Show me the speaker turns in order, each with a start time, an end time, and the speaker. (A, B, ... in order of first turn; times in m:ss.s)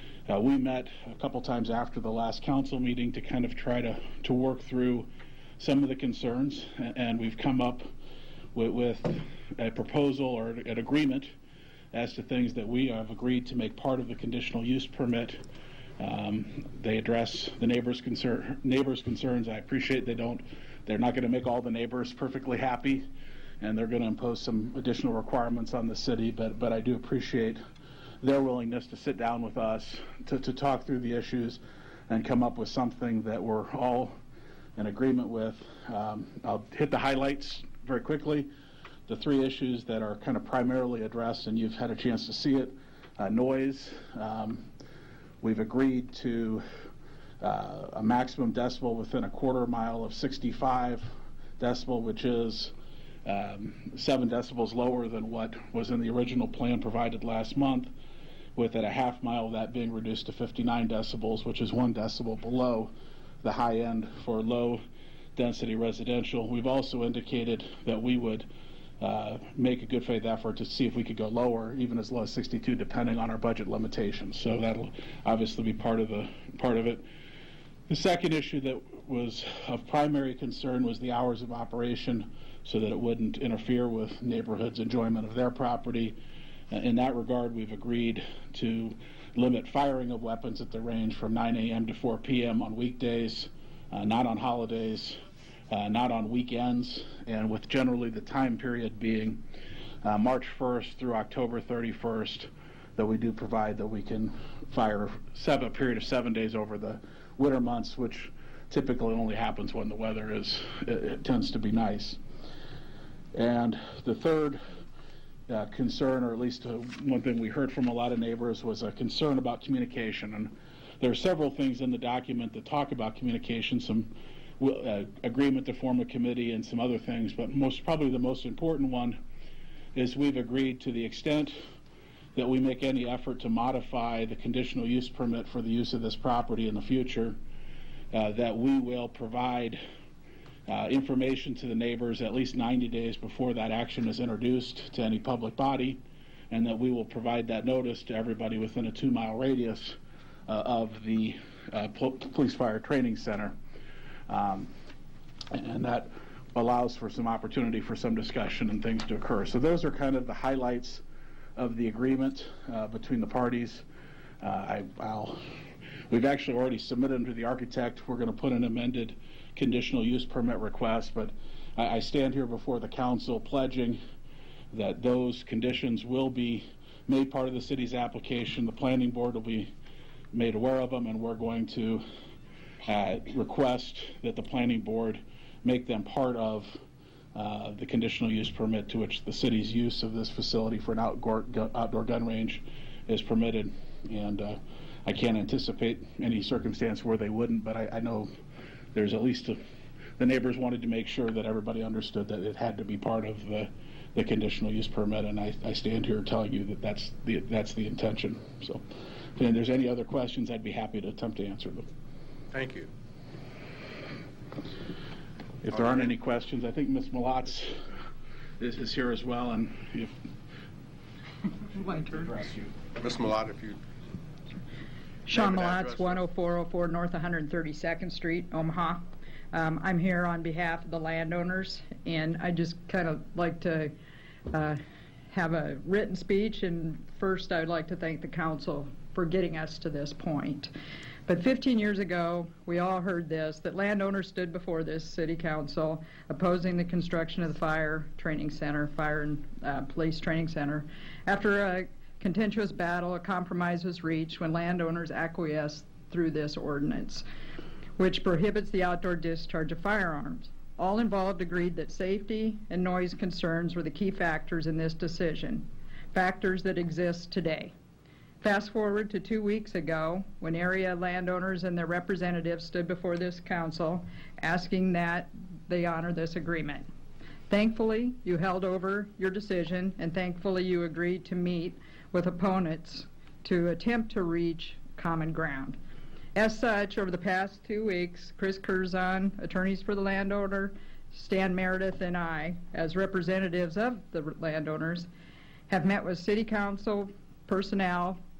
0:00.3-0:07.8 A
0:08.5-0:11.3 A
0:11.9-0:15.4 A
0:16.0-0:23.1 A
0:23.6-0:27.6 A
0:28.2-0:34.1 A
0:34.8-0:38.5 A
0:39.1-0:44.7 A
0:45.4-0:46.6 A
0:47.4-0:51.1 A
0:51.6-0:52.7 A
0:53.2-0:57.9 A
0:58.6-1:02.9 A
1:03.4-1:04.8 A
1:05.4-1:08.5 A
1:09.0-1:17.0 A
1:17.9-1:26.2 A
1:26.7-1:35.2 A
1:35.7-1:39.4 A
1:40.0-1:52.2 A
1:53.3-1:54.6 A
1:55.5-2:09.2 A
2:09.9-2:11.6 A
2:12.4-2:17.4 A
2:18.1-2:19.8 A
2:20.7-2:26.0 A
2:26.5-2:30.0 A
2:30.5-2:33.6 A
2:34.3-2:34.7 A
2:35.5-2:41.0 A
2:41.6-2:43.8 A
2:44.4-2:45.4 A
2:46.1-2:54.0 A
2:54.7-2:59.7 A
3:00.3-3:02.0 A
3:02.8-3:06.8 A
3:07.3-3:18.3 A
3:18.9-3:19.6 A
3:20.2-3:28.8 A
3:29.4-3:31.9 A
3:32.5-3:32.9 B
3:35.6-3:37.8 A
3:35.7-3:36.1 B
3:38.6-3:40.1 A
3:41.7-3:42.3 C
3:42.4-3:42.7 A
3:42.9-3:43.8 B
3:45.3-3:49.0 C
3:45.3-3:46.2 B
3:49.5-3:53.9 C
3:54.5-3:54.8 C
3:55.3-4:00.7 C
4:01.3-4:17.2 C
4:18.0-4:27.7 C
4:28.4-4:36.8 C
4:37.5-4:45.8 C
4:46.3-4:55.1 C
4:55.7-4:58.2 C